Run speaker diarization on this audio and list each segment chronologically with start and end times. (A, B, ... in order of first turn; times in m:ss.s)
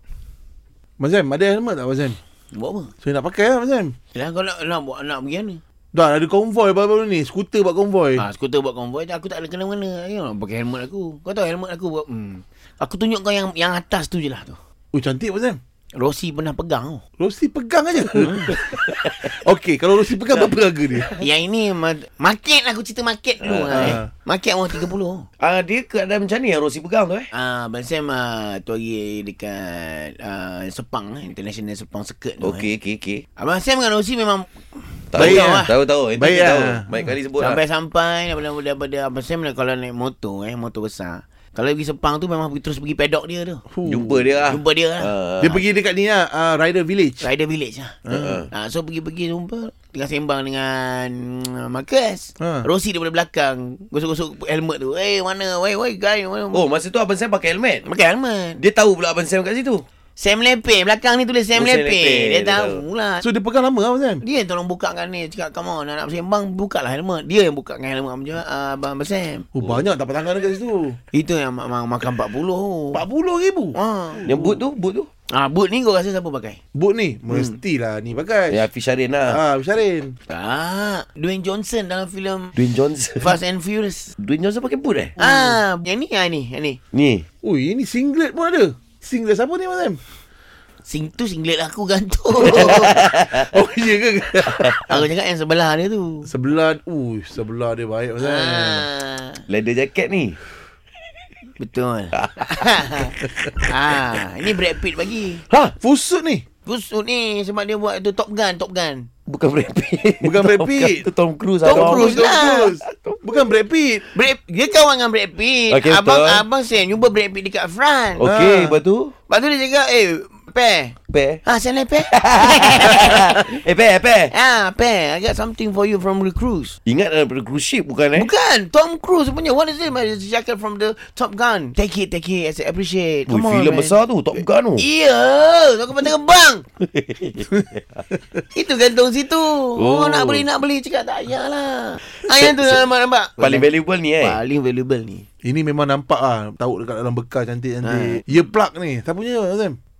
0:01.0-0:02.2 A
0:02.5-0:02.9 B
0:03.0-0:03.9 A
0:04.1-0:05.6 B
0:05.9-0:08.2 A
0:08.2-0:14.6 B
0:14.9-0:15.6 A
0:16.0-0:17.0 B
0:17.2-0:18.6 A
0:18.2-0:19.3 C
0:18.2-0:18.4 B
0:19.3-0:21.1 A
0:20.1-0:21.2 C
0:21.2-0:25.2 B
0:23.4-0:24.0 C
0:23.7-0:24.1 A
0:25.4-0:27.3 C
0:27.3-0:32.7 B
0:32.4-0:33.2 C
0:33.4-0:35.7 B
0:35.1-0:37.6 C
0:35.2-0:36.9 A
0:37.4-0:43.6 B
0:43.7-0:44.3 A
0:43.8-0:45.6 C
0:44.4-0:45.1 B
0:45.4-0:47.3 A
0:47.2-0:56.6 B
0:48.0-0:48.4 A
0:48.1-0:48.5 C
0:52.4-0:52.6 A
0:56.5-0:57.8 C
0:57.8-0:58.6 B
0:58.6-0:59.8 C
1:00.2-1:03.2 B
1:01.5-1:02.8 C
1:03.2-1:04.2 A
1:04.2-1:09.4 B
1:09.5-1:11.0 A
1:11.1-1:13.0 B
1:12.9-1:14.6 A
1:13.7-1:14.3 B
1:14.2-1:15.1 C
1:15.3-1:16.6 B
1:16.7-1:18.6 A
1:17.3-1:17.6 B
1:18.5-1:19.4 C
1:19.3-1:20.1 A
1:20.3-1:22.6 B
1:22.6-1:23.4 C
1:23.2-1:24.1 B
1:24.2-1:25.2 C
1:25.2-1:26.8 B
1:26.9-1:27.2 C
1:27.4-1:30.0 A
1:30.8-1:33.0 B
1:32.4-1:33.5 C
1:32.6-1:35.0 A
1:34.5-1:34.8 C
1:34.9-1:36.3 B
1:36.3-1:38.8 A
1:38.2-1:39.4 B
1:39.5-1:40.4 C
1:41.6-1:45.4 B
1:42.2-1:42.7 C
1:45.5-1:45.8 C
1:45.8-1:46.4 A
1:46.6-1:49.1 B
1:49.3-1:53.5 C
1:50.2-1:51.1 A
1:51.6-1:52.7 B
1:51.6-1:54.0 A
1:54.1-1:58.3 B
1:55.7-1:56.4 C
1:58.2-1:59.1 C
1:58.2-1:58.8 A
1:59.3-2:03.4 B
2:01.1-2:01.4 C
2:02.1-2:04.3 C
2:04.3-2:06.8 B
2:06.8-2:08.3 C
2:08.1-2:14.0 B
2:13.3-2:14.8 C
2:14.8-2:16.6 B
2:16.8-2:18.0 C
2:18.5-2:25.2 B
2:19.8-2:20.5 C
2:22.1-2:22.8 C
2:23.4-2:24.4 C
2:25.4-2:29.8 A
2:27.8-2:28.2 B